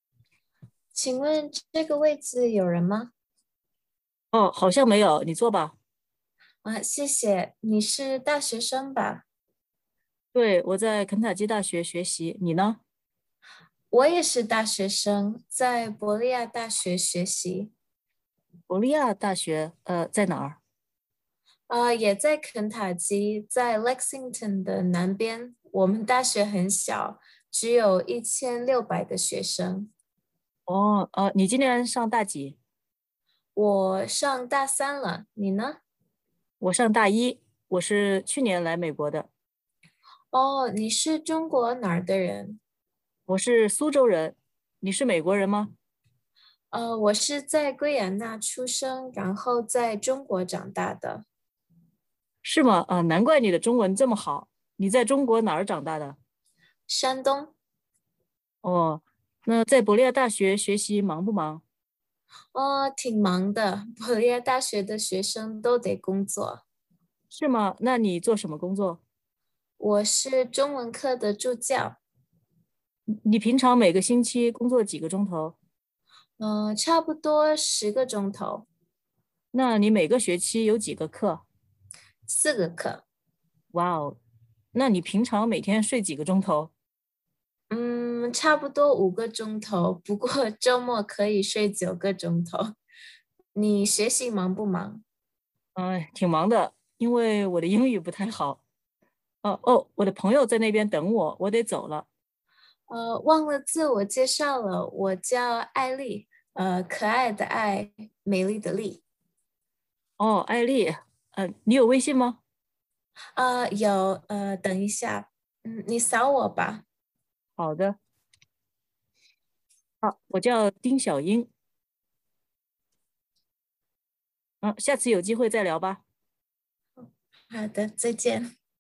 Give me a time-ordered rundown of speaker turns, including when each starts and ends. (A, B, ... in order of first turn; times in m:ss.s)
0:01.0-0:03.1 A
0:04.3-0:05.8 B
0:06.6-0:09.2 A
0:10.3-0:12.8 B
0:13.9-0:17.7 A
0:18.7-0:20.6 B
0:21.7-0:29.9 A
0:30.7-0:32.6 B
0:33.6-0:35.8 A
0:36.6-0:39.3 B
0:40.3-0:42.6 A
0:43.3-0:45.8 B
0:46.7-0:51.2 A
0:52.4-0:56.2 B
0:56.9-0:57.5 A
0:58.6-1:01.6 B
1:02.6-1:06.6 A
1:07.3-1:09.0 B
1:09.8-1:12.0 A
1:13.2-1:15.6 B
1:16.4-1:18.7 A
1:19.5-1:21.4 B
1:22.3-1:23.0 A
1:23.7-1:24.2 B
1:24.7-1:26.7 B
1:27.7-1:32.7 A
1:33.6-1:35.0 A
1:35.8-1:38.6 B
1:39.4-1:42.1 B
1:42.9-1:49.0 A
1:50.2-1:52.4 B
1:53.4-1:56.8 A
1:57.6-1:58.0 B
2:00.0-2:01.5 B
2:04.6-2:06.0 B
2:07.5-2:08.5 A